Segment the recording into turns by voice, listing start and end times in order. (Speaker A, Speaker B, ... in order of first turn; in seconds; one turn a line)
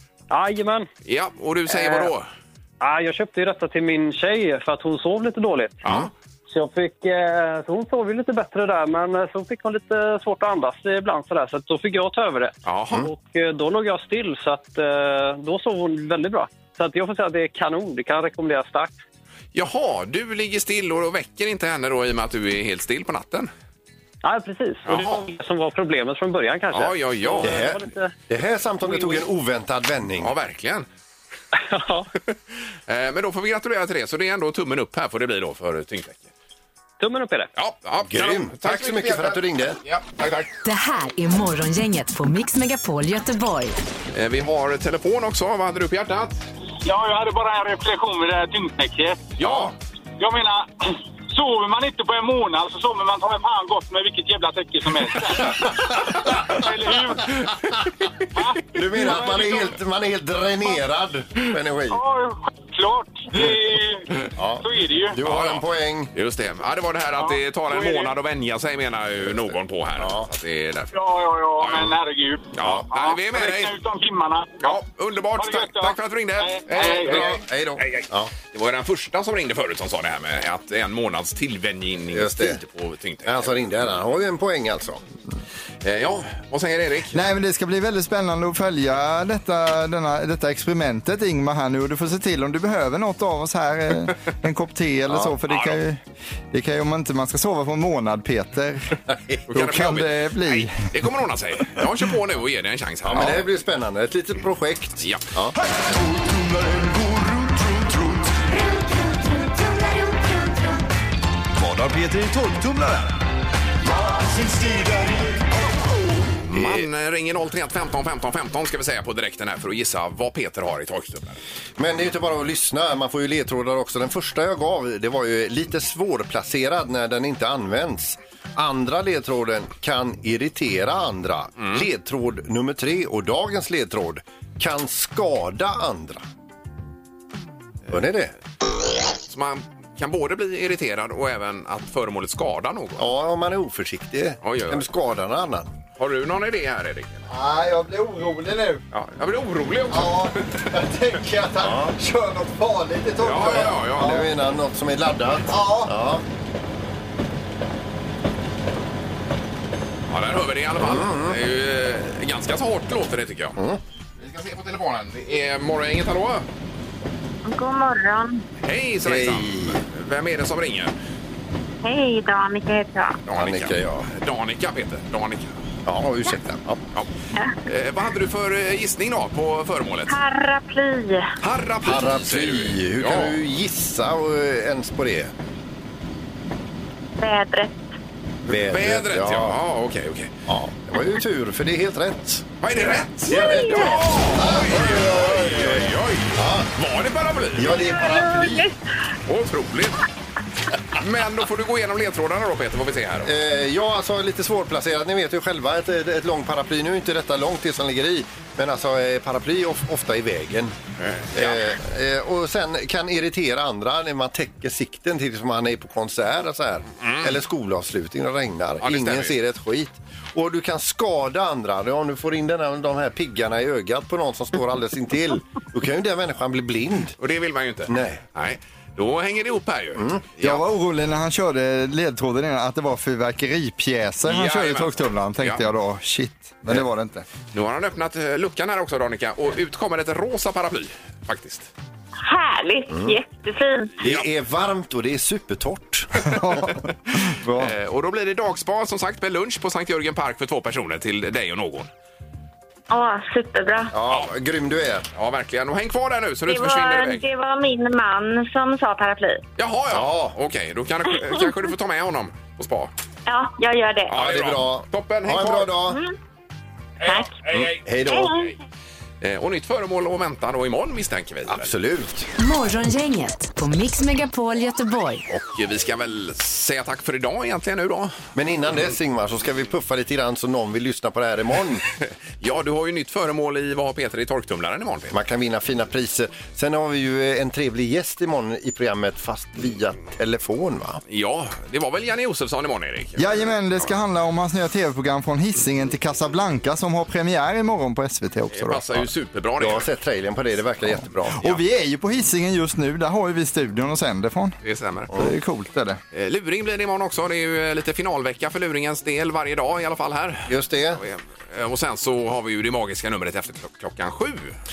Speaker A: 0.3-0.9
Speaker B: 1.1-2.3
Speaker A: 1.7-2.1
Speaker A: 2.8-5.8
Speaker B: 5.8-6.1
Speaker C: 5.8-6.1
Speaker A: 6.5-19.0
Speaker B: 12.7-13.1
Speaker B: 19.5-23.5
Speaker A: 24.2-28.1
Speaker B: 24.9-25.2
Speaker B: 26.7-27.6
Speaker C: 27.4-30.3
Speaker A: 28.8-29.3
Speaker B: 30.2-30.9
Speaker A: 31.6-32.1
Speaker B: 32.9-36.3
Speaker A: 37.0-37.5
Speaker B: 37.6-40.5
Speaker C: 38.1-39.8
Speaker D: 40.6-43.8
Speaker B: 44.1-46.5
Speaker E: 46.9-49.4
Speaker B: 49.4-49.8
Speaker C: 49.4-49.7
Speaker E: 50.2-55.7
Speaker E: 56.5-57.4
Speaker E: 58.3-59.8
Speaker C: 58.7-62.0
Speaker E: 61.9-64.1
Speaker C: 64.4-66.1
Speaker E: 64.6-65.2
Speaker B: 65.2-71.0
Speaker E: 67.2-68.2
Speaker C: 70.0-70.3
Speaker E: 70.9-74.8
Speaker B: 71.6-72.0
Speaker B: 72.5-73.8
Speaker B: 74.6-83.5
Speaker E: 75.3-77.4
Speaker C: 76.8-78.3
Speaker C: 82.1-82.6
Speaker C: 83.3-85.0
Speaker B: 85.8-87.2
Speaker F: 87.1-99.0
Speaker C: 95.1-95.3
Speaker B: 95.5-95.8
Speaker B: 99.5-103.4
Speaker F: 99.5-100.9
Speaker C: 103.0-105.5
Speaker G: 105.6-108.3
Speaker G: 111.5-113.3
Speaker G: 113.8-115.5
Speaker B: 116.5-121.4
Speaker C: 116.5-116.9
Speaker C: 121.8-136.2
Speaker B: 131.6-131.9
Speaker C: 137.9-138.3
Speaker B: 139.3-143.1
Speaker C: 143.0-145.7
Speaker B: 144.4-144.9
Speaker B: 146.0-147.3
Speaker F: 147.3-148.8
Speaker B: 148.9-150.7
Speaker F: 149.9-154.3
Speaker C: 151.6-152.0
Speaker B: 153.2-154.2
Speaker C: 154.0-156.2
Speaker F: 155.5-155.9
Speaker B: 160.1-163.6
Speaker C: 160.8-161.4
Speaker B: 164.2-166.5
Speaker H: 167.4-168.4
Speaker B: 168.6-170.9
Speaker C: 169.1-169.8
Speaker H: 171.8-173.2
Speaker B: 173.3-175.5
Speaker C: 173.3-174.1
Speaker C: 175.8-176.8
Speaker B: 177.7-180.2
Speaker H: 180.1-181.3
Speaker B: 181.4-183.4
Speaker C: 181.8-185.3
Speaker H: 187.2-187.8
Speaker C: 188.5-189.6
Speaker B: 188.5-190.3
Speaker C: 190.5-196.7
Speaker B: 192.6-198.0
Speaker H: 193.3-193.8
Speaker C: 197.6-198.7
Speaker H: 198.1-198.7
Speaker B: 199.3-200.0
Speaker B: 201.0-203.3
Speaker C: 203.2-210.7
Speaker B: 211.0-211.7
Speaker C: 211.3-227.2
Speaker B: 217.0-217.4
Speaker B: 218.8-219.4
Speaker B: 227.2-230.6
Speaker C: 227.9-228.2
Speaker C: 229.9-230.2
Speaker F: 230.4-237.2
Speaker B: 234.3-235.6
Speaker B: 237.5-241.7
Speaker H: 242.2-243.9
Speaker C: 242.9-243.2
Speaker C: 244.0-246.7
Speaker F: 246.3-247.7
Speaker B: 247.6-251.9
Speaker H: 252.9-253.9
Speaker C: 253.9-255.1
Speaker B: 255.2-257.3
Speaker H: 256.5-259.4
Speaker B: 259.6-262.9
Speaker C: 259.9-260.4
Speaker H: 263.3-264.1
Speaker B: 264.1-265.7
Speaker C: 264.1-266.0
Speaker H: 265.9-266.2
Speaker H: 267.0-267.4
Speaker C: 267.5-268.4
Speaker B: 269.2-271.7
Speaker C: 271.5-272.3
Speaker D: 272.4-275.2
Speaker B: 275.3-278.2
Speaker C: 278.4-281.9
Speaker B: 282.4-285.1
Speaker C: 285.1-291.0
Speaker B: 291.1-294.0
Speaker F: 293.2-299.1
Speaker B: 298.5-299.9
Speaker C: 299.6-301.4
Speaker F: 301.4-304.6
Speaker B: 304.6-305.1
Speaker F: 305.1-306.0
Speaker B: 306.1-314.6
Speaker C: 310.5-311.0